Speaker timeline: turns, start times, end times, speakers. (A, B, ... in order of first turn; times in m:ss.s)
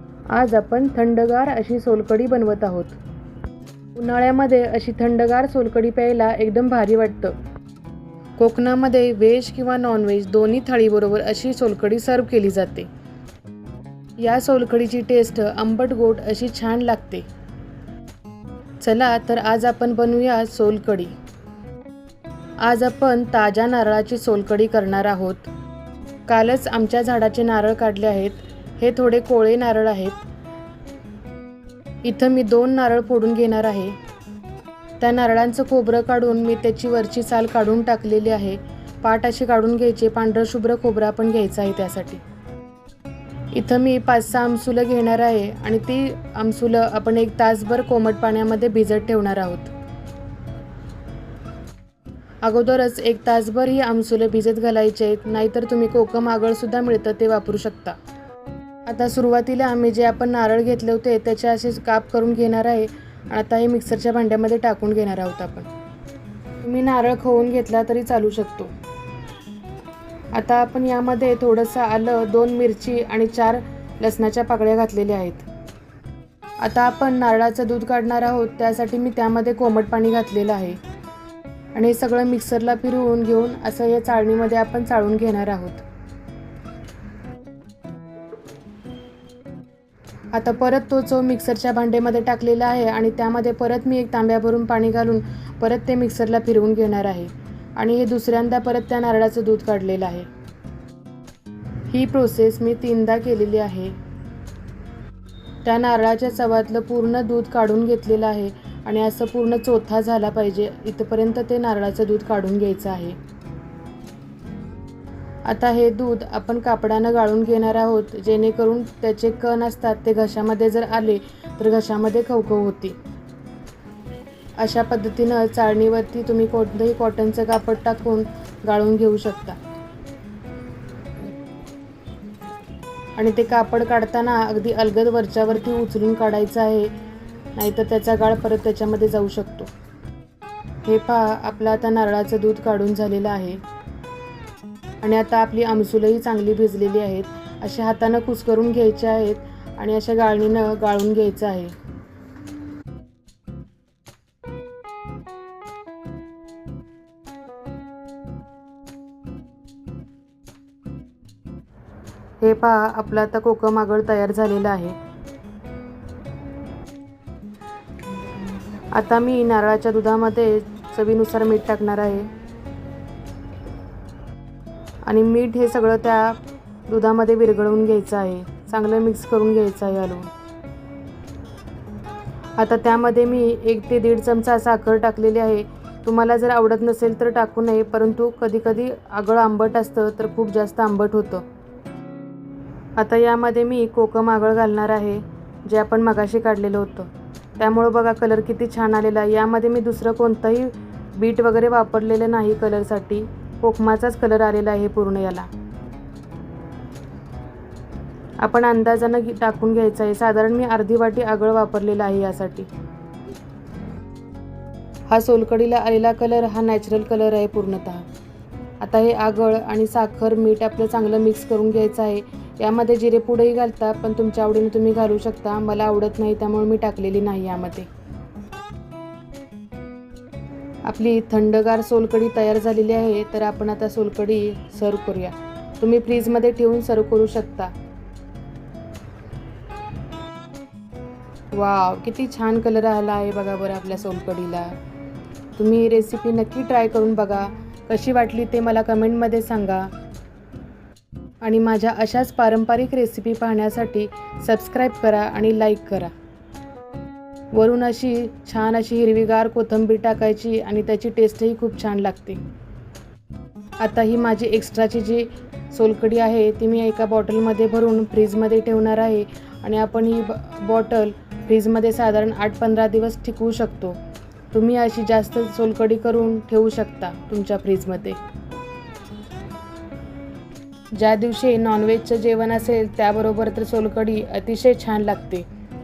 0:00.3-0:03.0 A
0:04.0-0:07.3 A
0:08.4-0:12.9 A
0:14.2-0:17.2 A
0:18.8-0:21.2 A
0:22.6-0:25.5 A
0:26.3-0:30.2 A
0:32.0-0:34.0 A
0:35.0-0:42.2 A
0:43.5-0:49.7 A
0:52.4-0:58.0 A
0:58.9-1:05.7 A
1:06.6-1:08.7 A
1:10.3-1:15.4 A
1:16.6-1:20.8 A
1:21.7-1:25.8 A
1:30.3-1:40.3 A
1:41.9-1:43.9 A
1:45.6-1:53.2 A
1:55.5-2:03.0 A
2:04.6-2:09.6 A
2:13.2-2:16.9 A
2:17.6-2:19.7 A
2:20.8-2:23.6 A
2:25.0-2:31.7 A
2:42.4-2:45.0 A
2:48.9-2:52.3 A
2:55.0-3:00.3 A
3:02.6-3:11.4 A
3:13.0-3:25.5 A
3:28.4-3:32.7 A
3:35.1-3:38.0 A
3:38.8-3:47.9 A
3:50.8-3:57.7 A
4:01.5-4:04.8 A
4:05.6-4:09.9 A
4:11.4-4:16.1 A
4:17.5-4:22.4 A
4:23.8-4:34.0 A
4:34.5-4:38.2 A
4:40.9-4:45.4 A